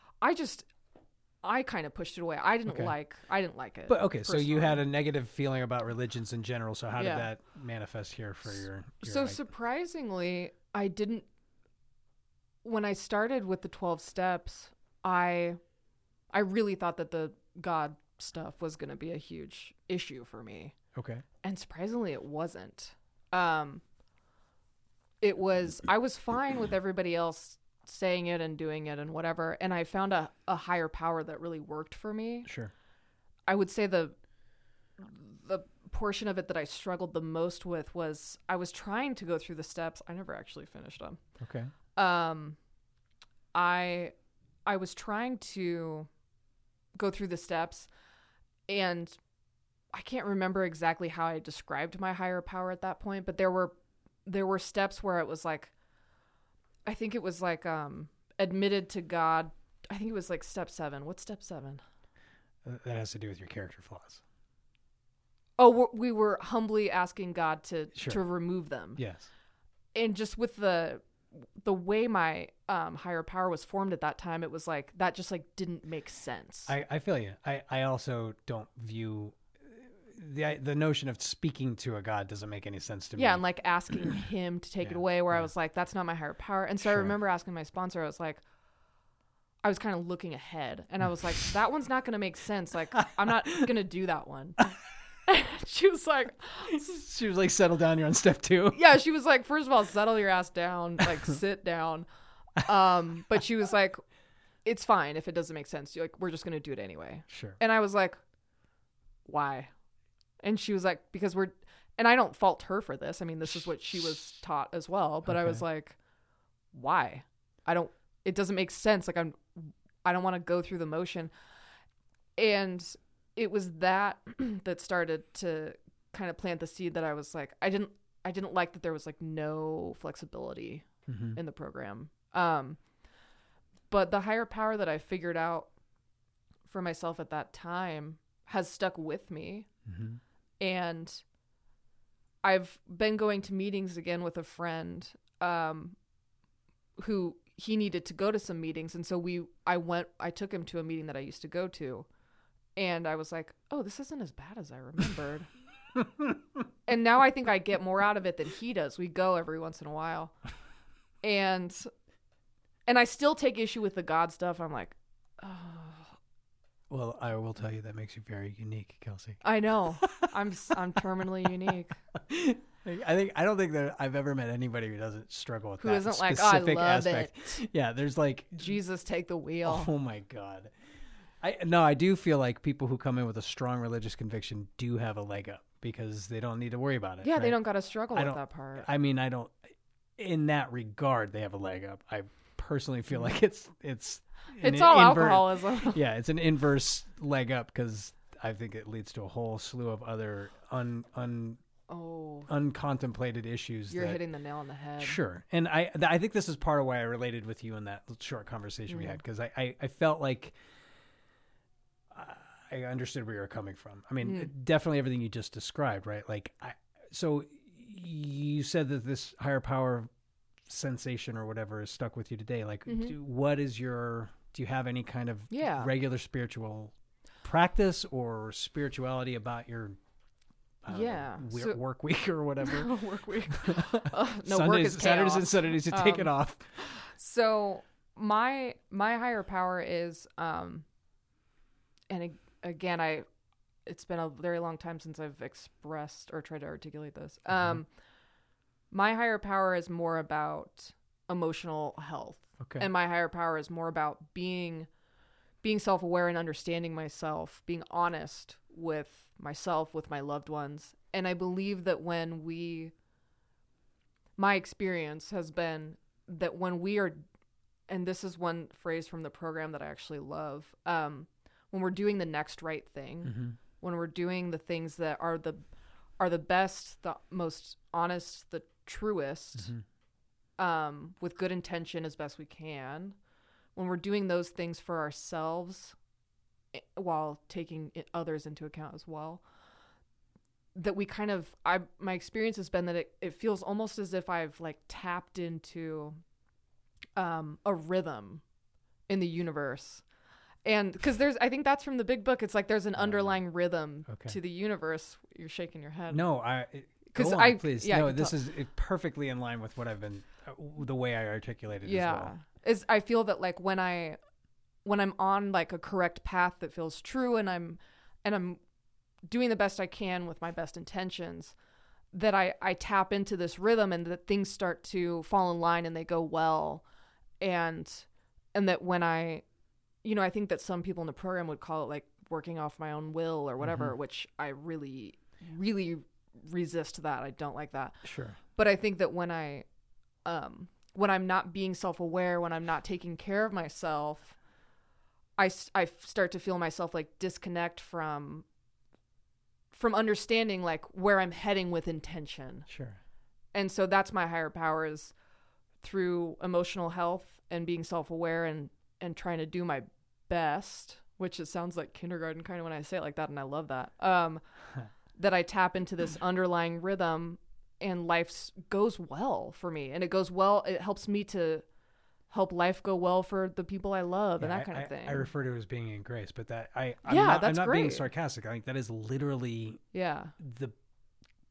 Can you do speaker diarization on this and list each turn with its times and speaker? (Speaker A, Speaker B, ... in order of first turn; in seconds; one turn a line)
Speaker A: 0.2-0.7
Speaker A: 1.4-4.8
Speaker B: 2.7-2.9
Speaker B: 3.9-9.4
Speaker A: 7.0-7.3
Speaker A: 9.0-11.3
Speaker A: 12.6-15.6
Speaker A: 16.3-20.8
Speaker B: 20.9-21.2
Speaker A: 21.4-23.8
Speaker A: 25.2-32.5
Speaker B: 32.5-32.7
Speaker A: 33.5-34.2
Speaker A: 35.0-41.2
Speaker B: 41.4-41.7
Speaker A: 42.0-42.6
Speaker A: 43.5-44.1
Speaker A: 44.7-46.1
Speaker A: 47.0-47.9
Speaker A: 48.7-49.2
Speaker A: 49.9-53.7
Speaker A: 54.3-55.7
Speaker A: 56.9-61.8
Speaker B: 62.6-64.2
Speaker A: 65.6-69.0
Speaker B: 68.0-68.2
Speaker B: 69.0-69.3
Speaker A: 69.9-76.7
Speaker B: 76.7-83.4
Speaker A: 83.2-88.4
Speaker B: 84.8-85.5
Speaker B: 86.8-87.1
Speaker A: 89.6-94.6
Speaker B: 93.3-93.6
Speaker A: 95.3-96.9
Speaker B: 96.7-98.8
Speaker A: 98.7-102.1
Speaker A: 102.6-104.0
Speaker A: 104.7-108.2
Speaker B: 107.3-107.6
Speaker A: 109.3-109.7
Speaker A: 110.4-116.0
Speaker B: 115.3-115.6
Speaker A: 116.7-121.3
Speaker A: 122.4-132.8
Speaker B: 131.1-131.4
Speaker A: 133.9-135.7
Speaker A: 136.7-139.7
Speaker B: 139.9-140.2
Speaker A: 140.6-141.2
Speaker A: 142.4-146.0
Speaker A: 147.0-152.1
Speaker A: 152.8-155.5
Speaker A: 156.9-160.4
Speaker A: 161.2-161.9
Speaker A: 162.9-166.1
Speaker B: 166.9-169.4
Speaker A: 169.4-172.0
Speaker B: 170.0-170.3
Speaker B: 172.2-178.7
Speaker A: 175.8-177.6
Speaker A: 178.6-179.9
Speaker B: 179.7-180.7
Speaker B: 181.4-187.6
Speaker A: 187.2-188.9
Speaker B: 188.1-189.6
Speaker B: 190.2-201.6
Speaker A: 194.6-196.0
Speaker A: 201.9-202.5
Speaker B: 202.5-204.2
Speaker A: 203.9-205.2
Speaker B: 205.0-210.6
Speaker A: 208.9-209.2
Speaker B: 212.1-220.1
Speaker A: 214.2-214.5
Speaker B: 220.7-230.0
Speaker A: 222.9-223.2
Speaker A: 225.5-225.9
Speaker B: 230.8-232.9
Speaker A: 230.9-231.8
Speaker A: 232.6-240.9
Speaker B: 233.5-236.7
Speaker A: 242.1-243.3
Speaker A: 243.9-247.9
Speaker B: 247.5-247.8
Speaker A: 248.9-254.9
Speaker B: 252.6-252.9
Speaker A: 255.6-262.9
Speaker A: 264.4-267.2
Speaker A: 267.9-275.6
Speaker B: 273.2-273.6
Speaker A: 276.2-279.7
Speaker B: 279.6-279.8
Speaker A: 280.6-283.2
Speaker A: 283.8-286.0
Speaker A: 286.7-289.4
Speaker A: 290.8-296.2
Speaker A: 297.2-298.4
Speaker A: 299.1-300.0
Speaker A: 300.6-306.3
Speaker B: 303.0-303.4
Speaker B: 304.1-304.4
Speaker B: 306.1-312.3
Speaker A: 307.1-308.4
Speaker A: 311.8-314.2
Speaker A: 314.8-318.6
Speaker A: 319.3-321.6
Speaker A: 322.1-326.8
Speaker A: 327.4-329.4
Speaker A: 330.0-339.7
Speaker B: 333.6-333.9
Speaker B: 338.0-338.4
Speaker A: 340.2-344.4
Speaker A: 345.4-348.5
Speaker A: 349.7-352.7
Speaker B: 352.7-353.0
Speaker A: 353.5-355.2
Speaker A: 355.8-364.4
Speaker A: 365.1-371.6
Speaker A: 372.3-375.3
Speaker B: 374.4-379.8
Speaker A: 377.1-378.1
Speaker A: 379.9-380.4
Speaker B: 380.4-380.8